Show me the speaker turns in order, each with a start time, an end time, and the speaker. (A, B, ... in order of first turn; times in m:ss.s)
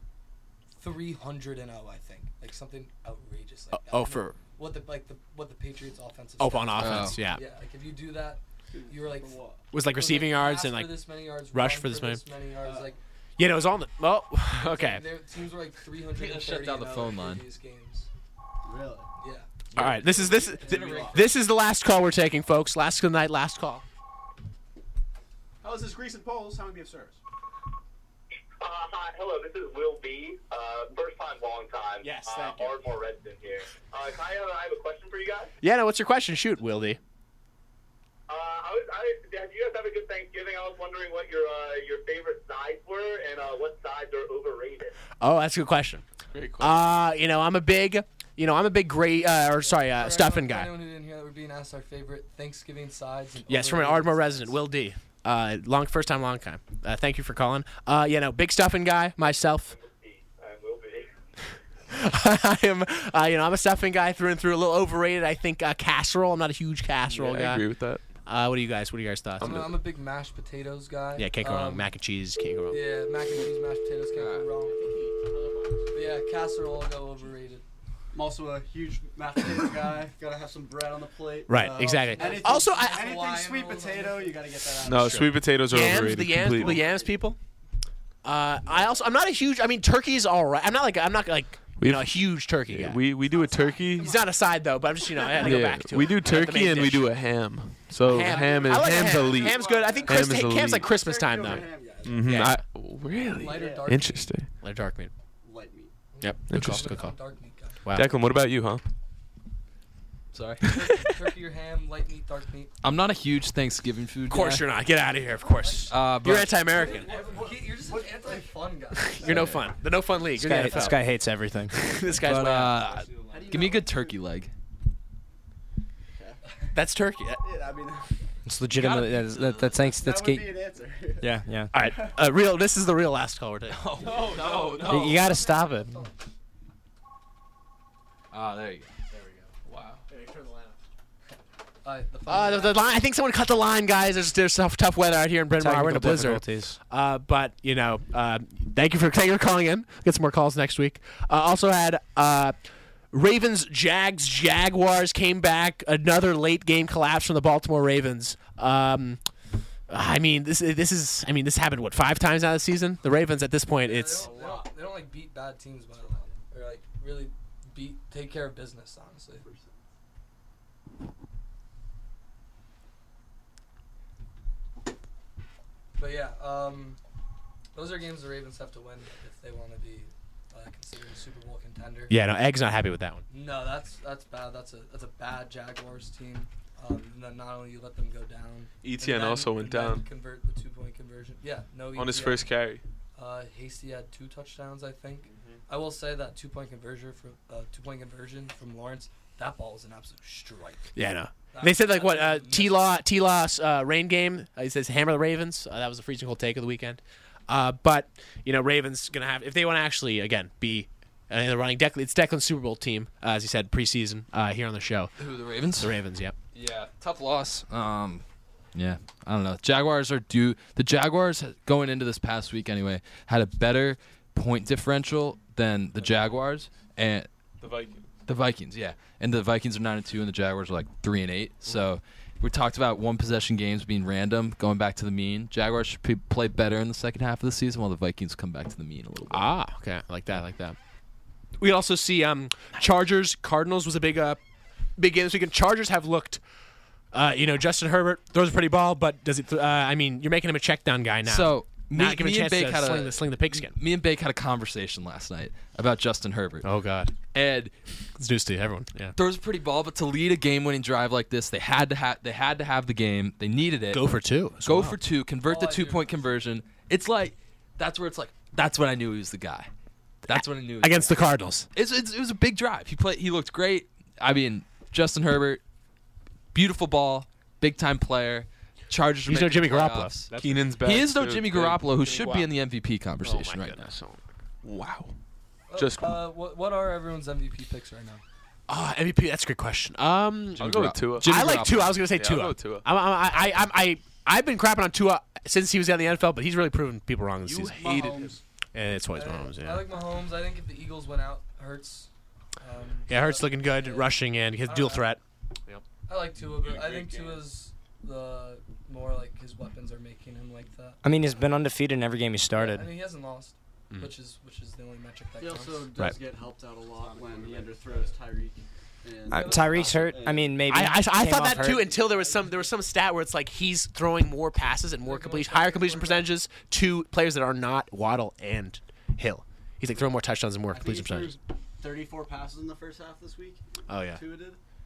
0:00.8-0:13.0 A
0:03.7-0:04.4 B
0:06.4-0:07.4 B
0:06.8-0:07.2 C
0:08.7-0:09.6 D
0:09.7-0:12.2 B
0:12.6-0:13.0 D
0:13.4-0:15.0 B
0:14.7-0:18.1 A
0:16.1-0:17.4 C
0:18.6-0:19.1 D
0:19.2-0:19.5 A
0:19.7-0:21.1 C
0:19.8-0:23.8 B
0:20.2-0:21.2 D
0:20.6-0:21.2 A
0:25.6-0:27.1 D
0:28.6-0:35.5 E
0:32.0-0:32.9 B
0:35.6-0:37.0 B
0:38.3-0:45.0 E
0:45.2-0:46.0 B
0:46.3-0:46.8 F
0:46.6-0:50.7 B
0:49.6-0:54.6 A
0:53.5-0:59.7 B
0:59.7-1:01.1 E
1:01.9-1:07.7 B
1:07.1-1:08.0 F
1:08.2-1:09.6 B
1:09.4-1:09.7 F
1:09.4-1:11.9 A
1:11.2-1:12.8 B
1:12.7-1:14.8 A
1:14.1-1:14.5 C
1:15.9-1:17.6 A
1:18.1-1:25.4 D
1:21.5-1:23.1 B
1:22.0-1:24.5 A
1:24.8-1:26.8 F
1:25.0-1:27.4 B
1:26.4-1:27.3 D
1:28.2-1:33.0 B
1:31.8-1:34.2 F
1:33.2-1:34.4 D
1:34.0-1:37.1 B
1:35.3-1:35.7 D
1:35.4-1:40.9 F
1:38.0-1:41.7 B
1:38.1-1:42.5 D
1:42.0-1:44.5 F
1:42.2-1:42.6 B
1:43.3-1:44.3 A
1:43.4-1:44.0 D
1:44.6-1:45.1 B
1:45.4-1:45.9 D
1:46.1-1:47.8 A
1:46.2-1:47.1 B
1:46.5-1:47.0 F
1:47.8-1:48.1 B
1:47.9-1:48.8 F
1:50.3-1:50.8 C
1:50.7-1:52.7 A
1:52.8-1:54.7 C
1:54.3-1:57.1 B
1:55.4-1:55.9 A
1:55.9-1:56.6 C
1:56.7-1:59.5 D
1:56.8-1:59.5 A
1:59.0-2:01.1 B
1:59.3-1:59.6 C
2:00.4-2:01.8 G
2:01.7-2:02.8 B
2:02.1-2:04.2 D
2:02.2-2:04.5 C
2:06.1-2:06.4 D
2:06.7-2:07.4 B
2:07.4-2:08.2 D
2:08.4-2:10.6 G
2:08.7-2:09.9 C
2:09.8-2:12.2 D
2:11.2-2:11.7 G
2:11.7-2:13.8 B
2:13.7-2:15.2 C
2:14.1-2:14.6 D
2:14.3-2:14.8 F
2:14.6-2:16.2 A
2:14.8-2:16.0 G
2:18.3-2:18.9 C
2:19.1-2:19.5 D
2:20.1-2:20.8 D
2:21.8-2:23.0 A
2:22.3-2:32.6 B
2:25.6-2:26.8 G
2:33.1-2:39.2 B
2:39.9-2:44.3 B
2:43.8-2:49.4 A
2:44.1-2:44.7 D
2:49.4-2:49.8 D
2:56.0-2:57.0 A
2:57.7-3:02.2 A
3:02.1-3:03.2 B
3:03.3-3:12.6 A
3:08.8-3:10.0 F
3:11.9-3:12.8 F
3:13.2-3:20.9 A
3:15.3-3:15.6 F
3:21.0-3:35.1 B
3:21.5-3:22.9 A
3:35.2-3:36.0 C
3:35.8-3:36.4 B
3:36.5-3:47.3 C
3:47.6-3:48.1 F
3:48.3-3:59.5 C
3:59.3-4:00.8 B
4:01.6-4:04.4 B
4:05.0-4:06.4 B
4:07.1-4:13.8 B
4:11.2-4:16.7 C
4:16.6-4:17.1 B
4:17.3-4:17.7 C
4:18.2-4:19.1 B
4:19.2-4:29.7 C
4:23.9-4:25.0 B
4:25.5-4:26.2 A
4:30.3-4:31.2 C
4:30.3-4:31.7 B
4:31.8-4:35.6 C
4:36.5-4:40.3 C
4:39.3-4:40.7 B
4:40.3-4:41.9 F
4:40.8-4:43.9 C
4:42.1-4:42.5 B
4:43.2-4:44.2 B
4:44.6-4:45.1 F
4:45.7-4:48.2 A
4:45.8-4:46.2 F
4:48.7-4:58.1 B
4:50.6-4:52.0 C
4:50.6-4:51.3 F
4:52.1-4:52.9 F
4:57.5-4:58.4 F
4:57.8-4:58.4 D
4:57.8-4:58.2 A
4:58.7-4:59.8 B
4:59.1-5:02.1 A
5:02.6-5:05.1 A
5:03.1-5:05.8 B
5:06.1-5:11.0 A
5:06.6-5:07.4 F
5:11.0-5:12.9 G
5:12.6-5:15.9 A
5:15.4-5:20.6 D
5:17.0-5:17.9 A
5:19.3-5:21.9 G
5:19.3-5:20.1 A
5:20.7-5:31.4 B
5:21.6-5:22.7 D
5:25.0-5:26.3 A
5:30.7-5:34.6 D
5:33.9-5:34.2 B